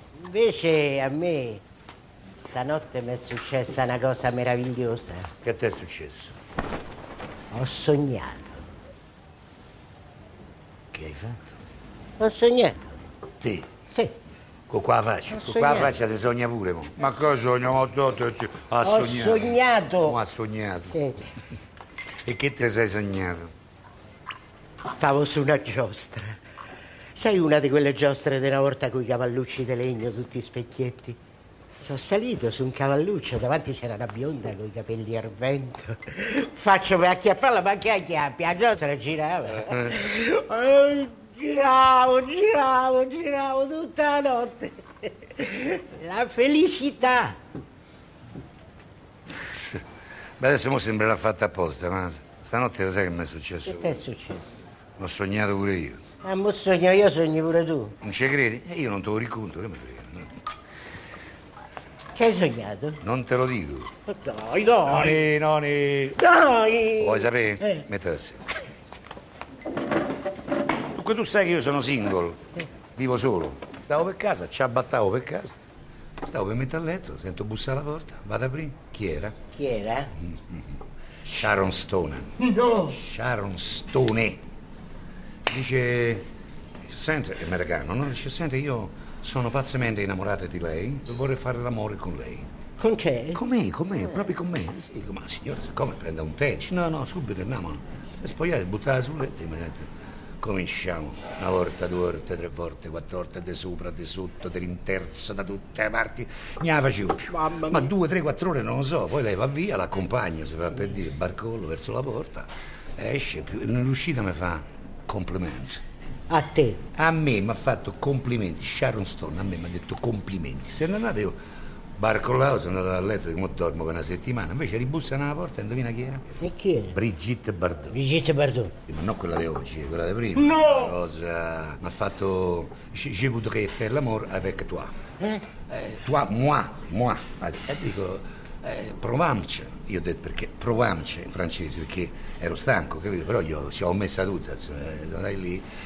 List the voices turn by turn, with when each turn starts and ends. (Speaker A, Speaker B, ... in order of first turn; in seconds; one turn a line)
Speaker A: 0.2-1.6
Speaker A: 2.4-5.3
Speaker B: 5.4-6.3
Speaker A: 7.5-8.6
Speaker B: 10.9-11.4
Speaker A: 12.2-13.0
Speaker B: 13.4-13.7
Speaker A: 13.9-14.1
Speaker B: 14.7-21.0
Speaker A: 15.3-15.9
Speaker A: 18.8-20.2
Speaker A: 20.9-21.2
Speaker B: 22.2-23.5
Speaker A: 24.8-26.4
Speaker A: 27.1-31.2
Speaker A: 31.8-47.4
Speaker B: 39.6-39.9
Speaker B: 49.4-49.8
Speaker B: 50.4-54.0
Speaker A: 53.6-54.5
Speaker B: 55.0-56.0
Speaker A: 56.2-58.0
Speaker B: 58.0-60.4
Speaker A: 62.1-63.0
Speaker B: 63.0-63.9
Speaker A: 64.1-65.2
Speaker B: 64.8-66.3
Speaker A: 66.2-67.8
Speaker B: 67.0-68.5
Speaker B: 70.9-72.4
Speaker B: 72.9-75.5
Speaker B: 76.2-79.3
Speaker A: 79.5-80.1
Speaker B: 80.2-84.4
Speaker A: 82.4-82.9
Speaker B: 85.5-86.3
Speaker B: 86.9-92.5
Speaker A: 92.8-93.4
Speaker B: 93.3-99.9
Speaker B: 100.4-115.8
Speaker A: 107.3-107.9
Speaker A: 116.3-116.8
Speaker B: 117.0-121.4
Speaker B: 122.0-126.2
Speaker A: 126.4-127.0
Speaker B: 126.9-128.0
Speaker A: 127.9-128.7
Speaker B: 128.9-134.9
Speaker A: 130.4-130.9
Speaker B: 135.7-145.6